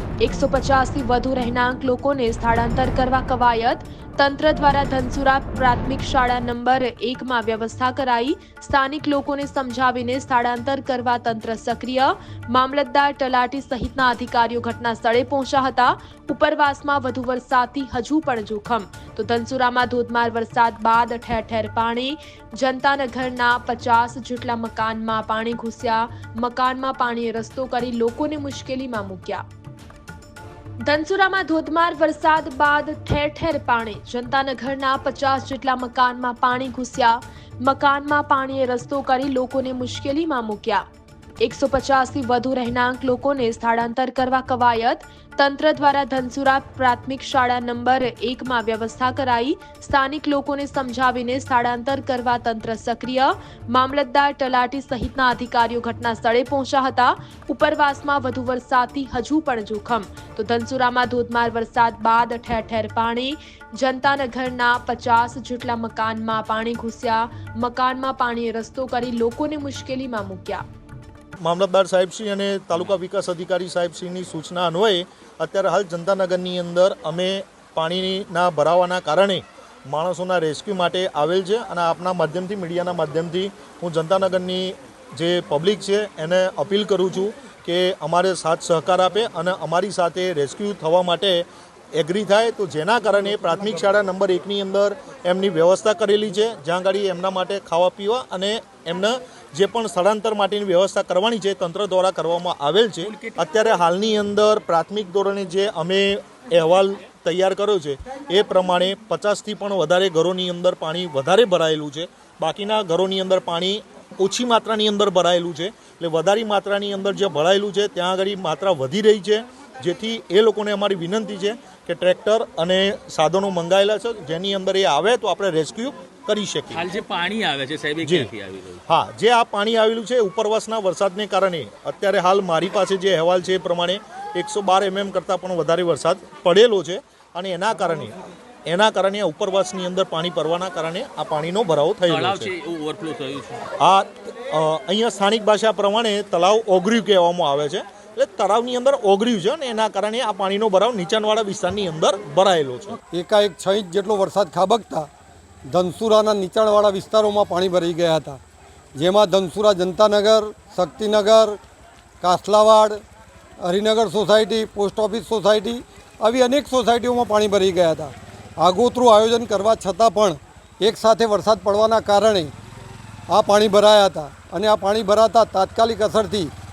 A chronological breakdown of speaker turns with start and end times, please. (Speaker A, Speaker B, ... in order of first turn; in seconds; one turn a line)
Speaker A: 0.2-29.4
Speaker A: 30.8-40.8
Speaker A: 41.4-70.6
Speaker B: 71.4-126.9
Speaker C: 103.0-103.4
Speaker C: 126.7-128.8
Speaker B: 128.0-128.3
Speaker B: 128.9-142.5
Speaker C: 142.1-143.7
Speaker B: 143.8-153.0
Speaker D: 153.1-155.1
Speaker D: 155.7-158.4
Speaker D: 159.0-161.6
Speaker D: 162.2-163.0
Speaker D: 163.6-172.5
Speaker D: 173.3-176.5